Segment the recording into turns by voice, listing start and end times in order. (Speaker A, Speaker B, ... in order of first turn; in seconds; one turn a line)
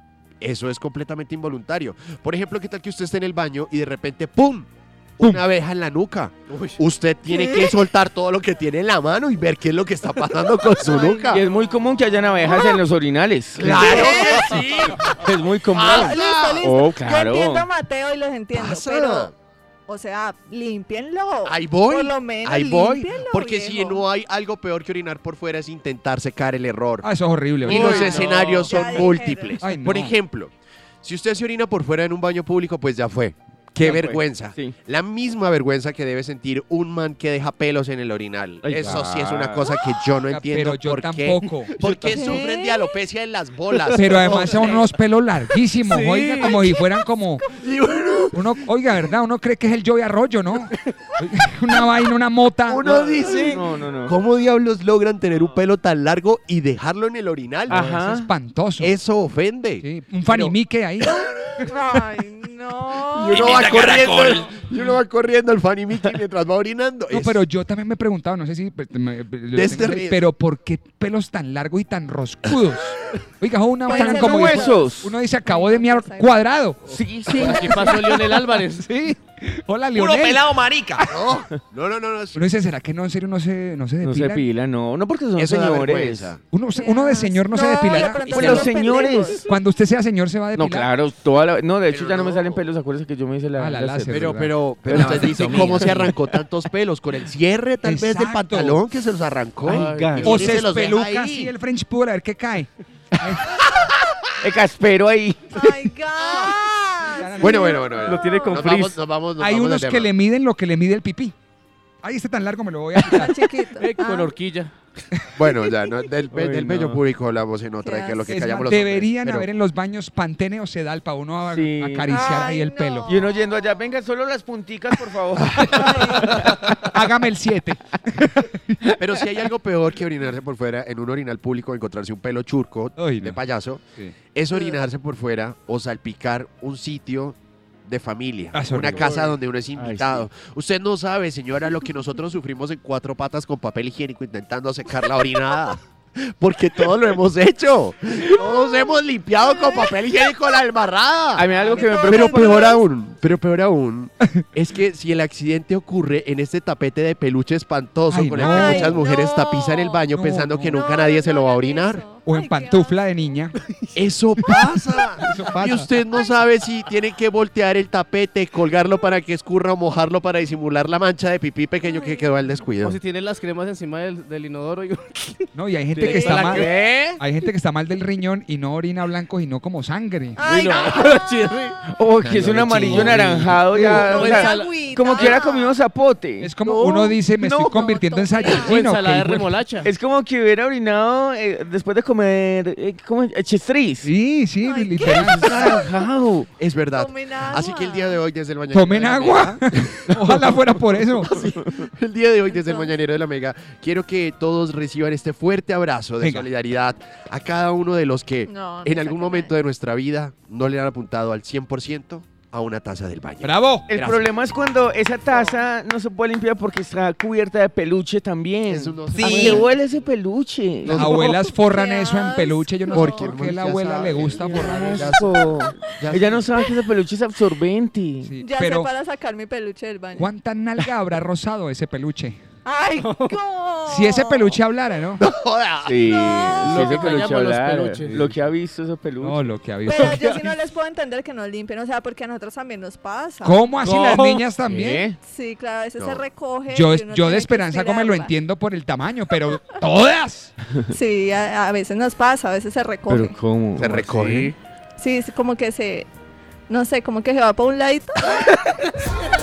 Speaker A: 0.4-4.7
Speaker A: 5.2-11.4
Speaker B: 7.3-7.8
Speaker B: 10.9-11.4
Speaker C: 11.3-14.7
Speaker A: 13.6-16.7
Speaker B: 13.8-14.4
Speaker D: 14.0-15.1
Speaker C: 15.2-17.7
Speaker B: 16.0-19.3
Speaker A: 18.5-19.3
Speaker B: 19.9-24.1
Speaker A: 21.5-27.1
Speaker E: 27.0-28.4
Speaker A: 27.6-30.5
Speaker B: 27.7-29.7
Speaker D: 28.2-28.8
Speaker E: 29.6-30.1
Speaker A: 31.0-44.9
Speaker C: 33.8-34.8
Speaker C: 38.6-39.8
Speaker E: 40.2-41.9
Speaker D: 41.8-42.3
Speaker B: 42.1-43.0
Speaker E: 43.9-47.4
Speaker D: 44.5-44.8
Speaker D: 45.9-46.7
Speaker A: 47.4-48.6
Speaker E: 48.3-52.9
Speaker A: 52.7-57.9
Speaker C: 52.8-54.2
Speaker C: 55.4-55.6
Speaker C: 57.7-58.3
Speaker E: 57.7-59.0
Speaker A: 58.8-62.0
Speaker E: 59.8-61.7
Speaker B: 61.6-63.4
Speaker A: 63.1-67.5
Speaker F: 63.3-64.5
Speaker E: 67.1-77.0
Speaker A: 69.5-70.2
Speaker B: 73.8-76.4
Speaker C: 73.9-75.2
Speaker C: 76.9-78.2
Speaker A: 77.3-77.8
Speaker D: 77.4-78.9
Speaker E: 77.6-80.5
Speaker F: 80.0-81.0
Speaker A: 81.1-82.4
Speaker E: 82.3-84.5
Speaker C: 84.0-86.4
Speaker A: 85.3-86.4
Speaker E: 86.5-88.4
Speaker B: 86.7-89.5
Speaker C: 88.3-89.5
Speaker E: 89.5-90.9
Speaker C: 90.6-94.2
Speaker A: 91.9-92.6
Speaker E: 93.6-94.6
Speaker A: 94.1-101.5
Speaker C: 94.7-96.3
Speaker E: 95.2-95.6
Speaker E: 97.8-98.8
Speaker C: 99.7-100.4
Speaker D: 99.7-100.5
Speaker E: 100.2-103.5
Speaker C: 104.4-105.6
Speaker B: 105.5-108.6
Speaker E: 107.2-107.6
Speaker A: 107.4-110.1
Speaker D: 108.0-109.0
Speaker C: 108.3-108.9
Speaker E: 109.4-111.3
Speaker E: 112.0-113.5
Speaker B: 113.0-114.3
Speaker D: 113.8-114.7
Speaker A: 115.3-119.5
Speaker C: 116.3-117.0
Speaker B: 117.8-118.7
Speaker E: 118.3-123.1
Speaker C: 121.4-122.2
Speaker B: 122.1-123.5
Speaker C: 123.1-126.8
Speaker E: 125.4-125.8
Speaker B: 125.8-126.4
Speaker E: 126.8-128.8
Speaker C: 128.8-129.2
Speaker A: 129.0-162.0
Speaker E: 133.0-133.4
Speaker E: 138.5-139.0
Speaker C: 138.8-140.3
Speaker B: 149.4-150.0
Speaker C: 151.3-152.4
Speaker B: 151.7-152.9
Speaker E: 158.1-158.9
Speaker B: 158.5-160.1
Speaker E: 160.1-160.8
Speaker B: 160.7-163.1
Speaker E: 162.2-165.9
Speaker A: 163.9-173.0
Speaker B: 166.1-166.3
Speaker B: 171.8-172.4
Speaker D: 172.8-177.2
Speaker E: 175.5-180.4
Speaker B: 176.1-176.6
Speaker C: 176.5-176.8
Speaker B: 180.4-181.1
Speaker D: 180.4-181.8
Speaker C: 181.9-187.9
Speaker A: 182.2-184.4
Speaker E: 182.8-184.1
Speaker D: 183.8-185.5
Speaker B: 184.4-185.8
Speaker E: 186.4-189.6
Speaker B: 187.7-188.7
Speaker D: 188.4-189.9
Speaker C: 189.8-194.1
Speaker E: 194.0-195.6
Speaker B: 194.6-196.0
Speaker C: 195.2-196.5
Speaker A: 196.6-200.2
Speaker B: 196.9-198.2
Speaker E: 198.7-201.3
Speaker C: 200.1-200.6
Speaker A: 201.1-214.3
Speaker B: 202.5-202.9
Speaker E: 206.2-206.5
Speaker B: 208.5-209.6
Speaker E: 213.4-213.9
Speaker C: 213.9-221.3
Speaker A: 218.7-219.8
Speaker F: 219.1-219.6
Speaker A: 220.8-221.2
Speaker E: 220.9-225.1
Speaker B: 221.0-223.3
Speaker A: 222.9-226.6
Speaker C: 224.0-228.3
Speaker E: 228.2-228.9
Speaker B: 228.4-230.3
Speaker E: 230.1-232.4
Speaker B: 232.6-234.6
Speaker D: 233.0-233.4
Speaker E: 233.9-235.2
Speaker A: 235.2-236.9
Speaker C: 235.8-239.6
Speaker B: 236.1-237.1
Speaker D: 236.6-238.4
Speaker E: 239.2-240.3
Speaker B: 239.8-243.8
Speaker E: 243.4-245.1
Speaker D: 244.0-244.4
Speaker C: 244.6-245.2
Speaker B: 245.2-248.3
Speaker A: 246.0-246.2
Speaker E: 246.7-250.5
Speaker B: 250.9-253.4
Speaker C: 253.1-254.5
Speaker A: 253.8-254.5
Speaker B: 255.0-256.1
Speaker B: 256.7-258.3